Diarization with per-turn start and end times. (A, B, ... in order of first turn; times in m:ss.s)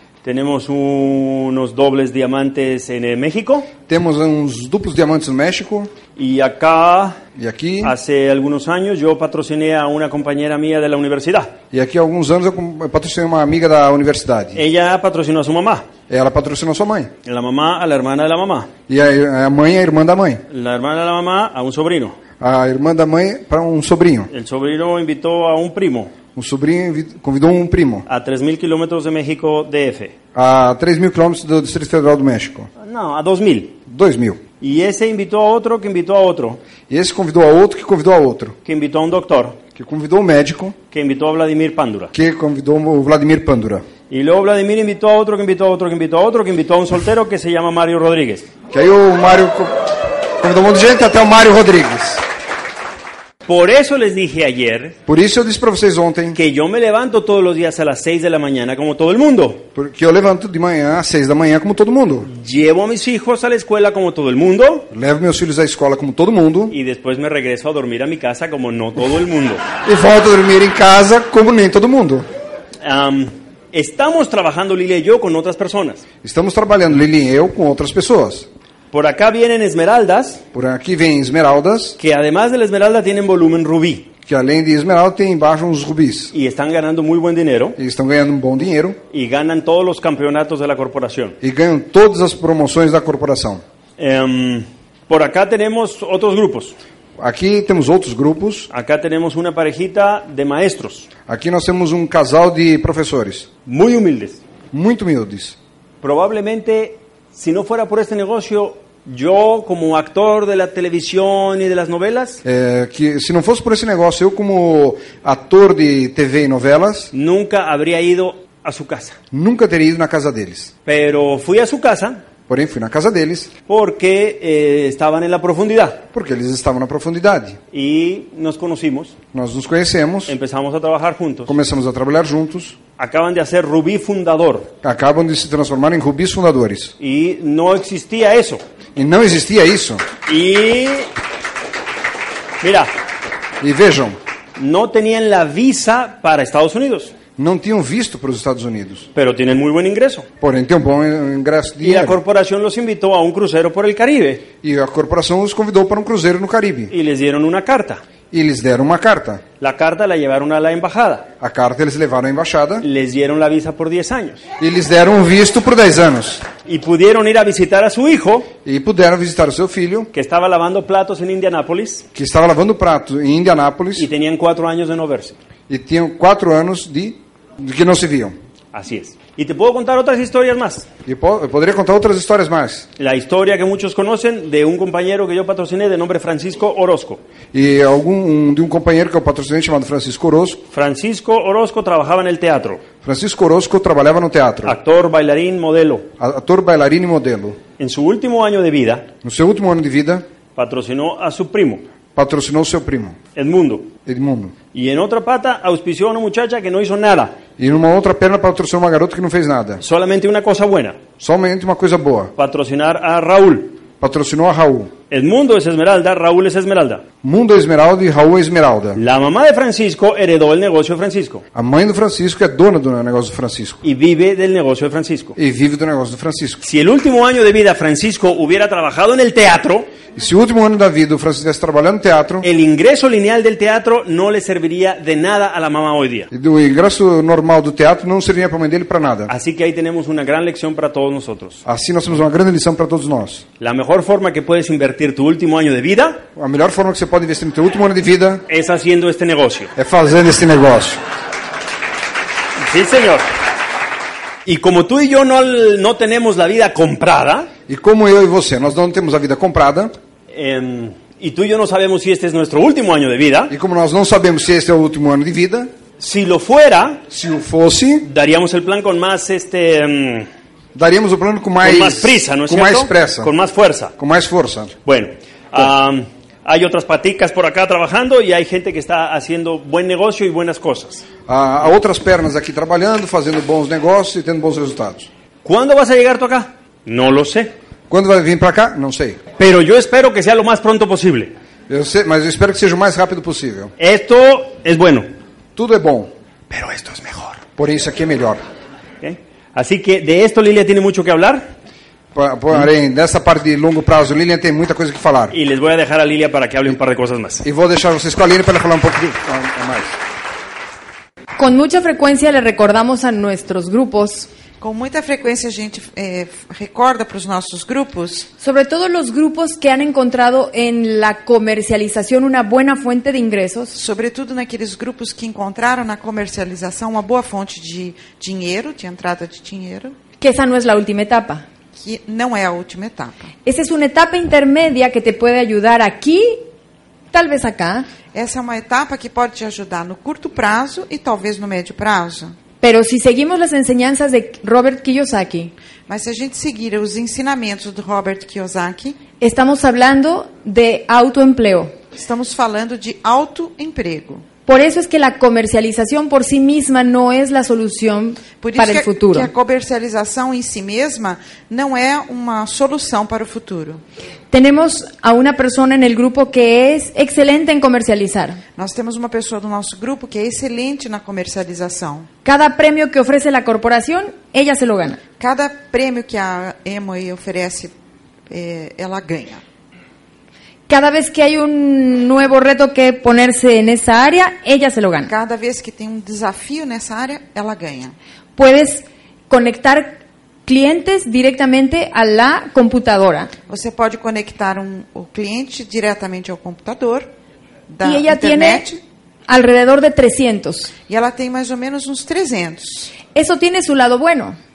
0:00.2-0:03.7 A
0:03.9-0:05.9 B
0:06.2-0:07.2 A
0:07.4-0:07.9 B
0:07.8-0:11.6 A
0:11.7-0:14.6 B
0:14.5-0:15.9 A
0:16.1-0:17.1 B
0:17.2-0:18.7 A
0:18.9-0:20.4 B
0:20.5-0:22.2 A
0:22.4-0:24.3 B
0:24.3-0:26.1 A
0:26.3-0:28.1 B
0:28.1-0:30.1 A
0:30.3-0:32.7 B
0:32.8-0:33.8 A
0:33.9-0:34.4 B
0:34.6-0:36.6 A
0:36.9-0:38.5 B
0:38.6-0:39.6 A
0:39.7-0:40.8 B
0:40.9-0:42.1 A
0:42.1-0:43.8 B
0:44.1-0:48.4 A
0:48.7-0:52.2 B
0:53.4-0:55.0 A
0:55.0-0:56.4 B
0:56.3-0:59.6 A
0:59.7-1:02.3 B
1:02.3-1:04.9 A
1:04.9-1:06.8 B
1:06.7-1:09.6 A
1:09.8-1:12.2 B
1:12.8-1:16.0 A
1:16.2-1:18.5 B
1:18.9-1:20.4 A
1:20.5-1:22.0 B
1:22.0-1:24.1 A
1:24.3-1:26.3 B
1:26.3-1:27.8 A
1:27.8-1:29.0 B
1:29.1-1:31.4 A
1:31.4-1:33.6 B
1:34.0-1:36.7 A
1:37.2-1:38.7 B
1:38.7-1:41.1 A
1:41.3-1:43.5 B
1:43.6-1:44.4 A
1:44.7-1:45.6 B
1:46.0-1:52.4 A
1:52.4-1:57.1 B
1:57.1-1:59.2 A
1:59.3-2:00.7 B
2:00.8-2:02.2 A
2:02.5-2:03.5 B
2:03.7-2:06.0 A
2:06.1-2:07.6 B
2:07.7-2:09.2 A
2:09.3-2:10.3 B
2:10.3-2:11.6 A
2:11.5-2:12.8 B
2:13.0-2:14.7 A
2:14.8-2:16.9 B
2:17.0-2:18.6 A
2:19.0-2:20.0 B
2:20.3-2:21.1 A
2:22.6-2:22.9 A
2:23.6-2:24.2 B
2:24.6-2:27.1 A
2:27.4-2:29.1 B
2:29.1-2:30.3 A
2:30.4-2:32.2 B
2:31.8-2:34.5 A
2:34.6-2:36.9 B
2:36.9-2:38.0 A
2:38.3-2:39.4 B
2:39.6-2:41.3 A
2:41.4-2:42.8 B
2:42.8-2:44.4 A
2:44.6-2:46.4 B
2:46.6-2:48.5 A
2:48.6-2:50.1 B
2:50.1-2:52.0 A
2:52.1-2:54.1 B
2:54.0-2:55.4 A
2:55.7-2:58.4 B
2:58.7-3:00.9 A
3:01.0-3:02.8 B
3:03.0-3:07.2 A
3:07.5-3:10.6 B
3:10.7-3:12.8 A
3:13.0-3:14.8 B
3:14.6-3:16.1 A
3:16.2-3:17.6 B
3:17.8-3:19.1 A
3:19.2-3:20.2 B
3:20.6-3:21.8 A
3:22.2-3:23.2 B
3:23.4-3:23.9 A
3:24.0-3:24.5 B
3:24.7-3:27.4 A
3:27.6-3:29.8 B
3:29.8-3:31.0 A
3:31.2-3:32.3 B
3:32.4-3:33.8 A
3:34.0-3:34.9 B
3:35.1-3:37.0 A
3:37.2-3:39.0 B
3:39.0-3:41.4 A
3:41.5-3:43.8 B
3:43.8-3:45.4 A
3:45.4-3:46.6 B
3:46.6-3:49.9 A
3:50.2-3:52.4 B
3:52.4-3:56.3 A
3:56.3-3:59.3 B
3:59.3-4:01.6 A
4:01.6-4:03.4 B
4:03.6-4:06.2 A
4:06.4-4:08.4 B
4:08.5-4:09.7 A
4:09.8-4:11.0 B
4:12.6-4:13.2 A
4:14.4-4:17.5 A
4:17.7-4:19.9 B
4:20.3-4:23.5 A
4:23.5-4:25.7 B
4:26.0-4:27.0 A
4:27.1-4:28.1 B
4:28.0-4:30.3 A
4:30.7-4:33.3 B
4:31.6-4:33.9 A
4:34.0-4:34.7 B
4:34.8-4:41.0 A
4:41.3-4:45.1 B
4:45.4-4:47.5 A
4:47.9-4:49.2 B
4:49.4-4:51.3 A
4:51.7-4:53.7 B
4:53.8-4:55.0 A
4:55.6-4:56.1 B
4:56.5-4:57.4 A
4:57.6-4:58.4 B
4:59.0-5:01.5 A
5:02.1-5:05.3 B
5:05.3-5:07.4 A
5:07.4-5:09.9 B
5:11.4-5:14.3 C
5:14.6-5:18.3 D
5:18.4-5:23.8 C
5:23.7-5:29.9 D
5:30.2-5:31.4 C
5:31.7-5:33.3 D
5:33.4-5:36.4 C
5:37.1-5:37.9 C
5:38.1-5:42.4 D
5:42.6-5:45.5 C
5:45.9-5:49.0 D
5:49.2-5:51.7 C
5:51.9-5:54.2 D
5:54.5-5:59.3 C
5:58.4-6:03.8 D
6:04.3-6:08.4 C
6:08.6-6:12.1 D
6:12.2-6:15.0 C
6:15.2-6:17.7 D
6:18.3-6:19.4 D
6:20.7-6:25.1 C
6:25.0-6:28.0 D
6:28.4-6:33.3 C
6:33.5-6:37.1 D
6:37.7-6:38.8 D
6:37.8-6:38.7 C
6:39.3-6:40.7 C
6:40.9-6:42.9 D
6:43.1-6:44.4 C